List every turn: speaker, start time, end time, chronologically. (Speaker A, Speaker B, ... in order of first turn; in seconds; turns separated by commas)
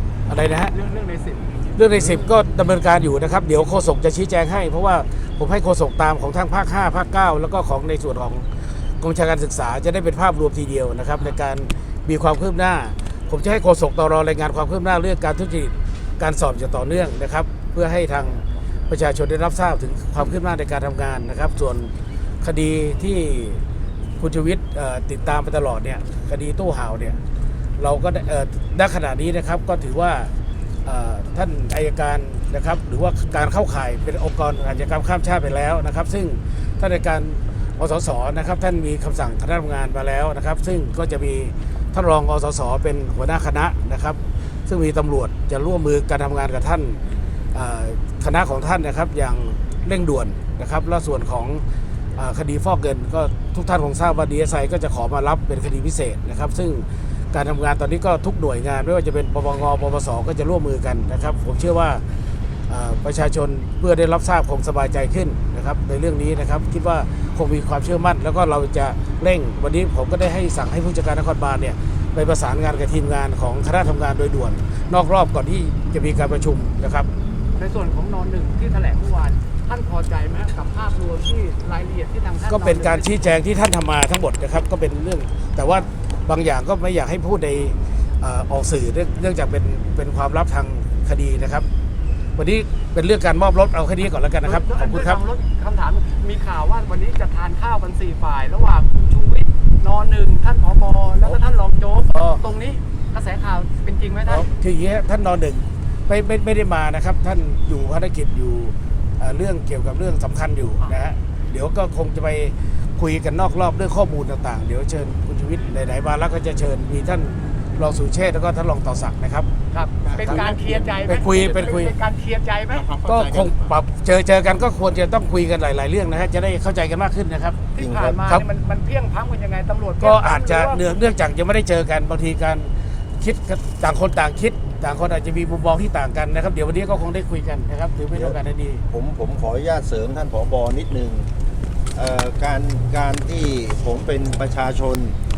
Speaker A: 0.3-0.7, Speaker B: 0.7-1.5, Speaker A: 1.8-23.6, Speaker A: 24.2-27.2, Speaker A: 27.8-30.3, Speaker A: 30.9-47.0, Speaker A: 47.5-51.6, Speaker A: 52.2-62.0, Speaker A: 62.7-77.1, Speaker B: 77.6-83.1, Speaker A: 82.5-91.7, Speaker A: 92.4-95.2, Speaker B: 94.4-104.5, Speaker A: 102.1-102.4, Speaker A: 104.3-119.5, Speaker B: 119.7-122.9, Speaker C: 120.0-120.8, Speaker A: 120.2-121.9, Speaker C: 122.7-123.7, Speaker A: 123.0-127.6, Speaker B: 127.8-130.8, Speaker C: 127.8-128.2, Speaker A: 130.0-138.8, Speaker C: 138.9-141.3, Speaker C: 141.9-145.2